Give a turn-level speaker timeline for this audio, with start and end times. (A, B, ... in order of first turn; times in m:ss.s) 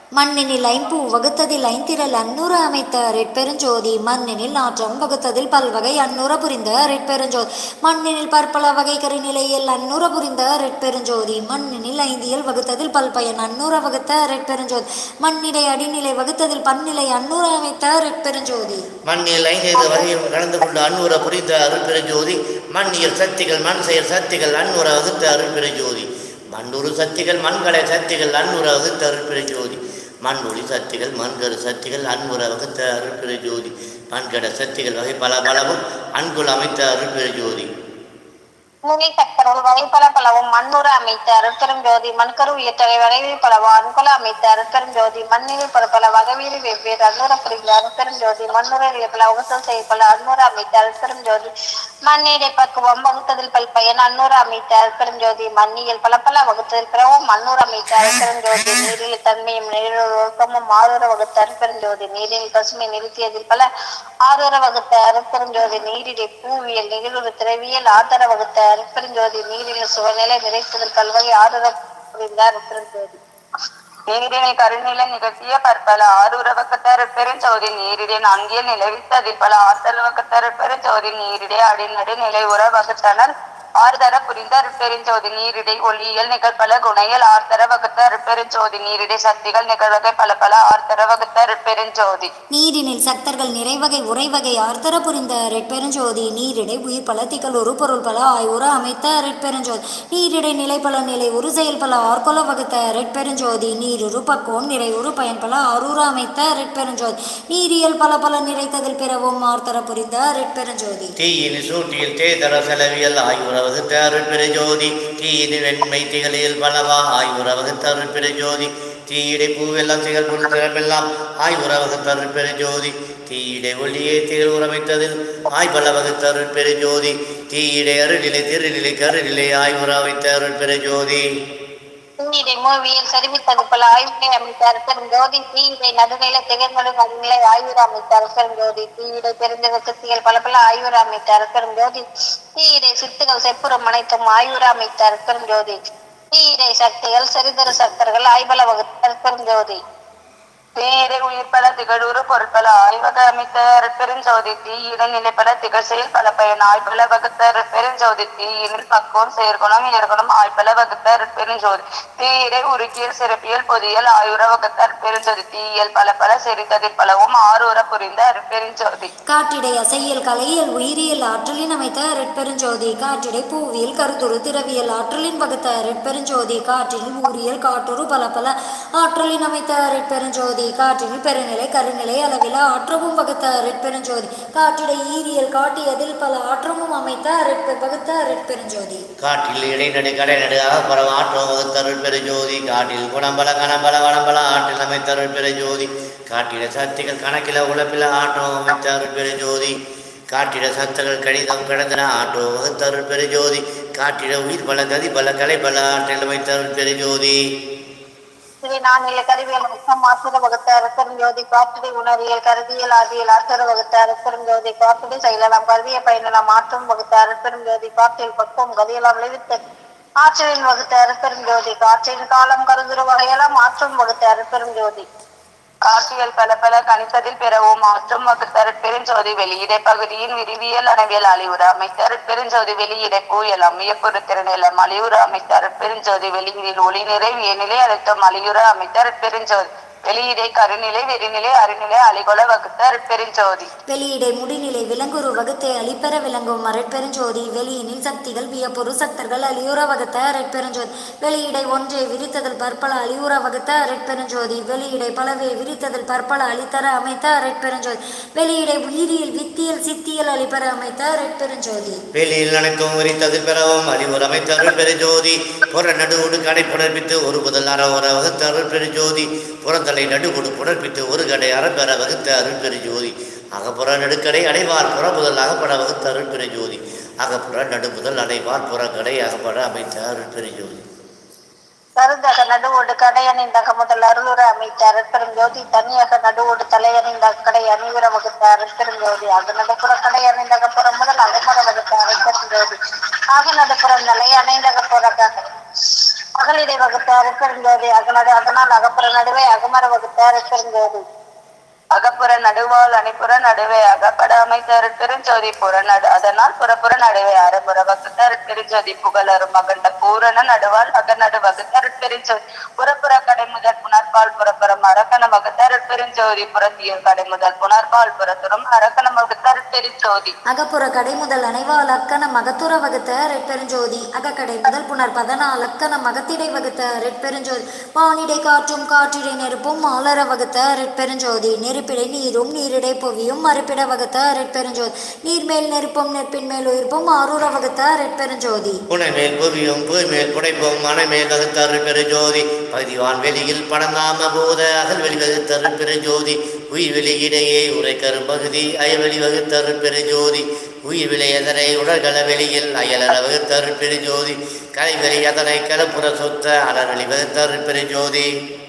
0:00.2-0:18.8 A
0:19.0-0:37.7 B
0:38.8-0:51.5 C
0:52.1-1:03.6 C
1:04.2-1:13.2 C
1:14.1-1:32.3 D
1:32.5-1:51.1 A
1:51.2-2:11.2 B
2:12.2-2:22.0 C
2:22.6-2:25.8 C
2:26.3-2:29.8 C
2:30.8-2:49.1 D
2:49.3-3:09.0 A
3:09.2-3:19.8 B
3:20.3-3:27.4 B
3:28.6-3:39.6 C
3:40.2-3:45.0 C
3:45.8-4:03.7 D
4:03.9-4:22.0 A
4:22.1-4:40.9 B
4:42.0-4:52.8 C
4:53.3-4:55.4 C
4:56.4-5:01.0 C
5:01.9-5:20.3 D
5:20.5-5:38.8 A
5:38.9-5:58.3 B